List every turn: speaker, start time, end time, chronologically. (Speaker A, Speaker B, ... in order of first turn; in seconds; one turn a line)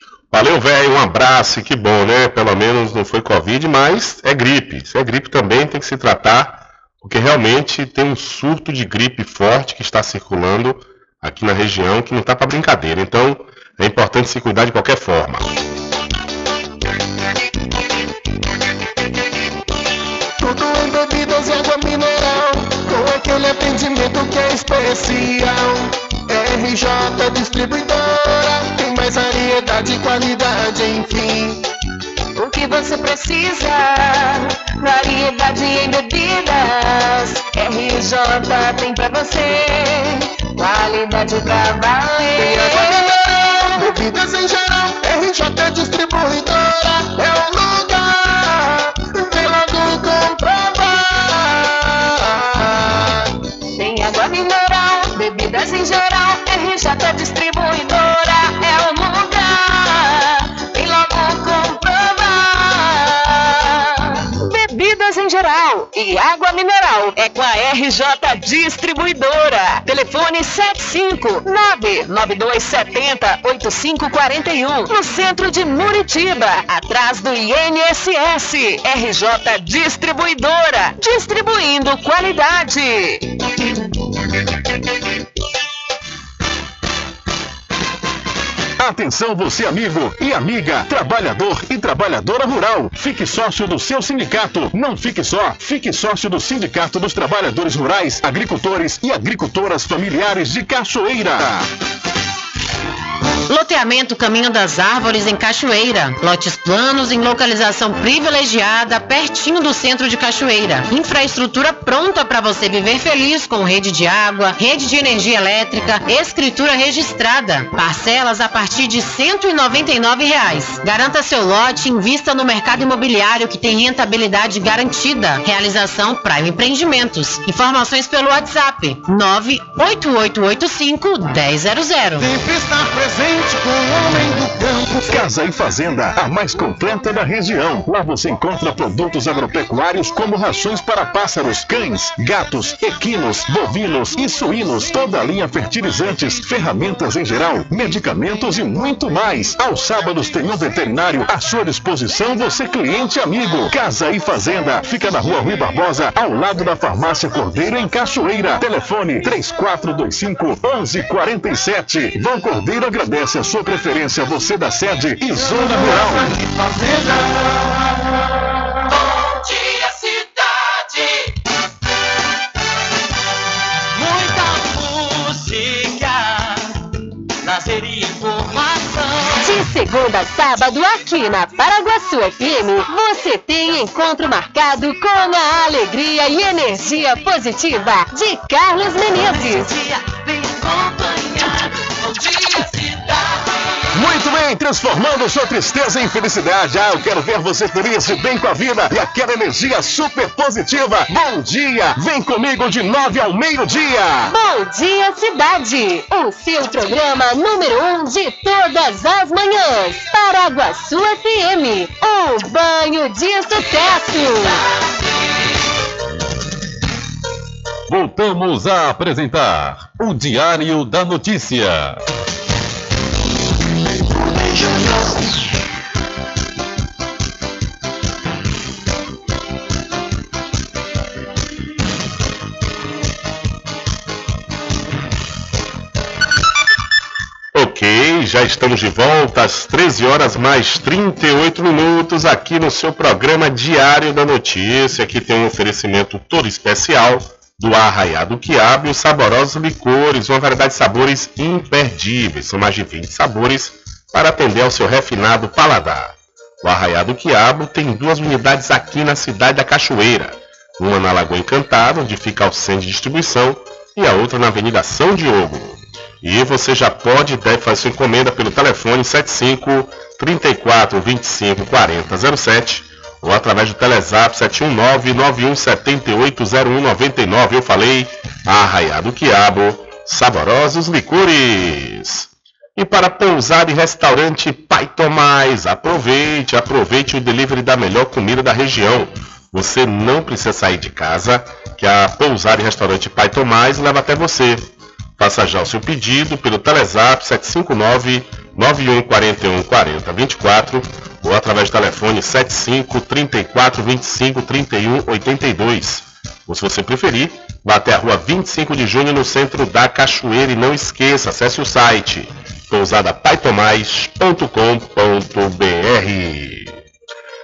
Speaker A: 0.3-15.6
Speaker B: 20.5-31.6
Speaker C: 32.4-43.2
Speaker B: 43.8-48.0
Speaker B: 49.0-50.1
Speaker C: 50.5-51.0
Speaker C: 53.8-83.2
Speaker D: 88.8-101.6
Speaker E: 103.5-132.3
Speaker B: 132.2-135.3
Speaker D: 135.1-166.3
Speaker B: 165.4-167.8
Speaker C: 179.2-192.9
Speaker D: 193.9-204.3
Speaker C: 204.3-214.6
Speaker F: 217.9-222.0
Speaker A: 237.5-316.8